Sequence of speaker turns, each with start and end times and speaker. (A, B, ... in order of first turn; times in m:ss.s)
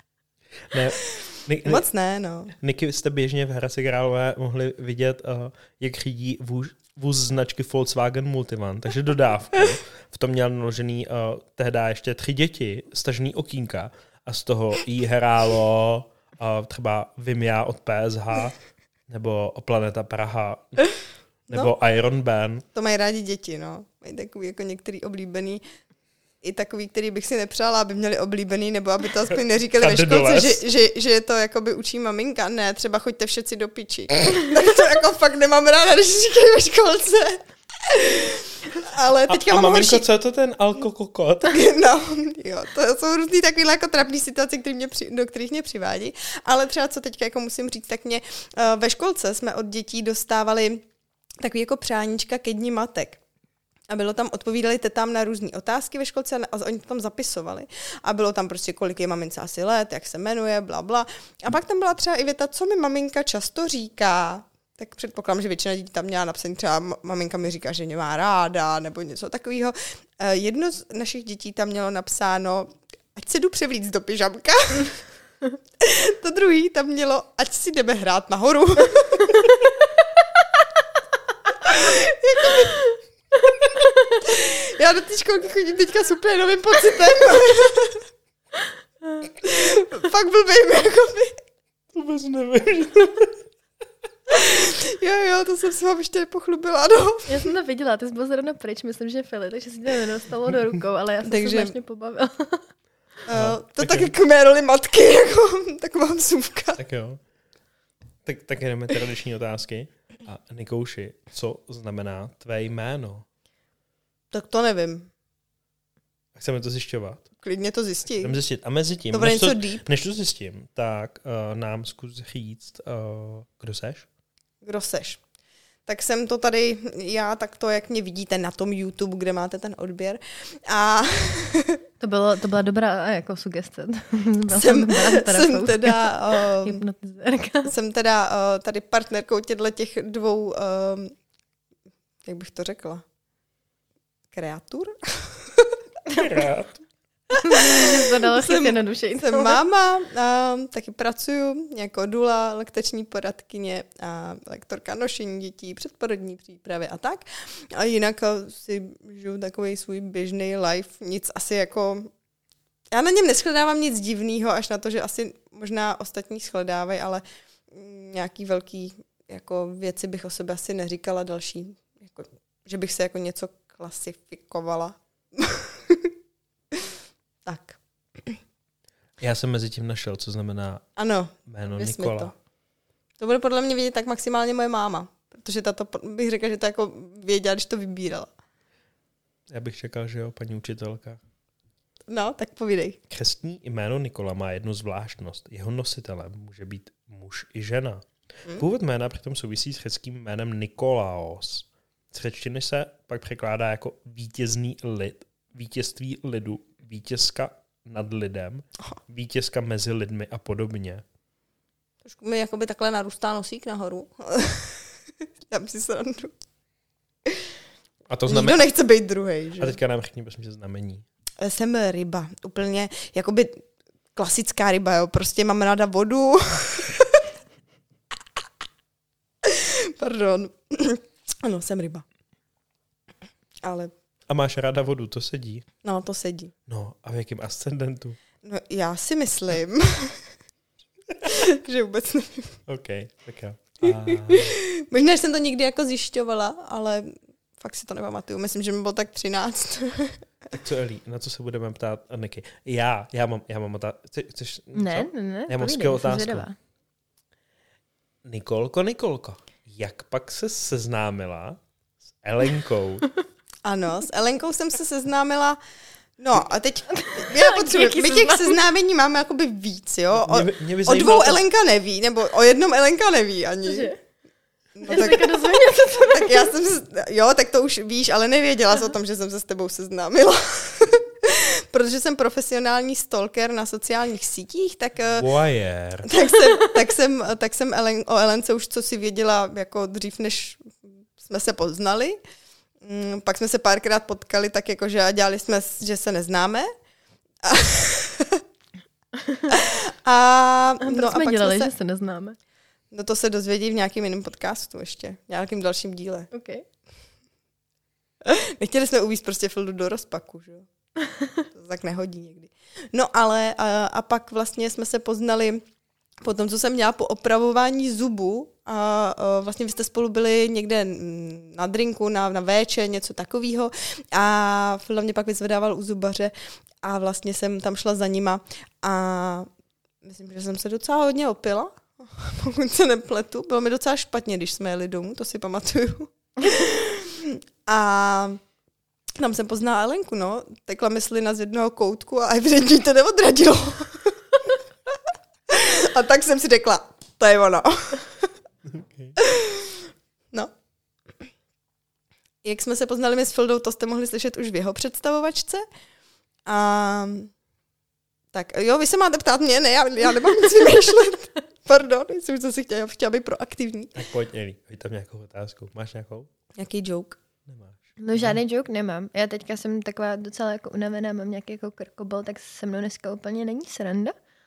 0:00.7-0:01.8 A
0:01.4-0:02.5 B
0:02.6-0:21.0 A
0:21.5-0:22.6 A
0:22.7-0:25.6 B
0:26.4-0:40.1 B
0:29.8-0:30.6 A
0:39.3-0:41.6 A
0:41.5-0:50.8 B
0:51.4-0:53.2 B
0:53.9-1:15.0 B
1:15.8-1:19.5 B
1:21.6-1:22.8 B
1:24.1-1:28.0 B
1:29.4-1:31.4 B
1:31.9-1:33.4 A
1:34.3-1:37.5 B
1:37.3-1:42.7 C
1:41.2-1:41.7 B
1:43.3-1:46.8 B
1:43.3-1:44.1 A
1:46.8-1:47.2 A
1:48.2-1:53.3 A
1:54.3-1:55.1 B
1:56.4-1:57.3 A
1:57.4-1:58.4 B
1:58.2-2:04.1 A
1:59.1-1:59.8 B
2:04.6-2:05.2 B
2:05.9-2:11.8 B
2:12.0-2:17.7 C
2:14.5-2:16.8 B
2:17.6-2:21.1 B
2:22.2-2:23.0 B
2:24.3-2:25.8 B
2:26.2-2:26.8 A
2:27.3-2:42.1 B
2:27.4-2:29.6 C
2:42.9-2:56.1 B
2:57.4-2:58.4 B
2:59.2-3:00.9 A
3:01.0-3:02.3 B
3:01.5-3:02.3 A
3:03.2-3:08.3 B
3:09.5-3:11.2 A
3:12.1-3:13.0 B
3:13.1-3:31.0 A
3:32.0-3:34.9 B
3:35.5-3:36.4 B
3:38.1-3:38.6 A
3:38.3-3:39.8 B
3:39.6-3:41.0 A
3:41.4-3:47.2 B
3:49.4-3:52.0 B
3:53.6-3:53.9 B
3:54.3-3:55.7 A
3:55.8-3:56.5 B
3:56.7-3:58.2 A
3:58.4-4:00.3 B
4:01.2-4:02.6 B
4:02.7-4:04.6 A
4:03.9-4:10.2 B
4:10.5-4:16.5 A
4:14.8-4:16.6 C
4:18.2-4:21.6 A
4:22.1-4:23.1 A
4:23.6-4:25.6 B
4:26.2-4:33.9 B
4:26.9-4:28.6 C
4:30.2-4:31.4 A
4:33.7-4:34.0 C
4:34.8-4:45.3 B
4:34.8-4:36.5 C
4:45.2-4:46.1 A
4:46.0-4:52.2 B
4:52.8-4:56.7 B
4:57.4-4:58.4 B
4:59.5-5:01.7 B
5:00.8-5:02.4 C
5:02.9-5:06.3 B
5:06.3-5:06.6 C
5:08.2-5:10.7 B
5:11.5-5:15.6 B
5:16.2-5:29.5 B
5:30.0-5:38.4 B
5:39.2-5:44.1 B
5:45.5-5:48.3 B
5:48.6-5:49.2 A
5:49.2-5:49.8 B
5:52.4-5:55.6 B
5:56.5-5:57.3 B
5:58.3-6:04.0 B
6:04.0-6:06.3 A
6:06.6-6:07.2 B
6:07.4-6:08.4 A
6:08.0-6:14.1 C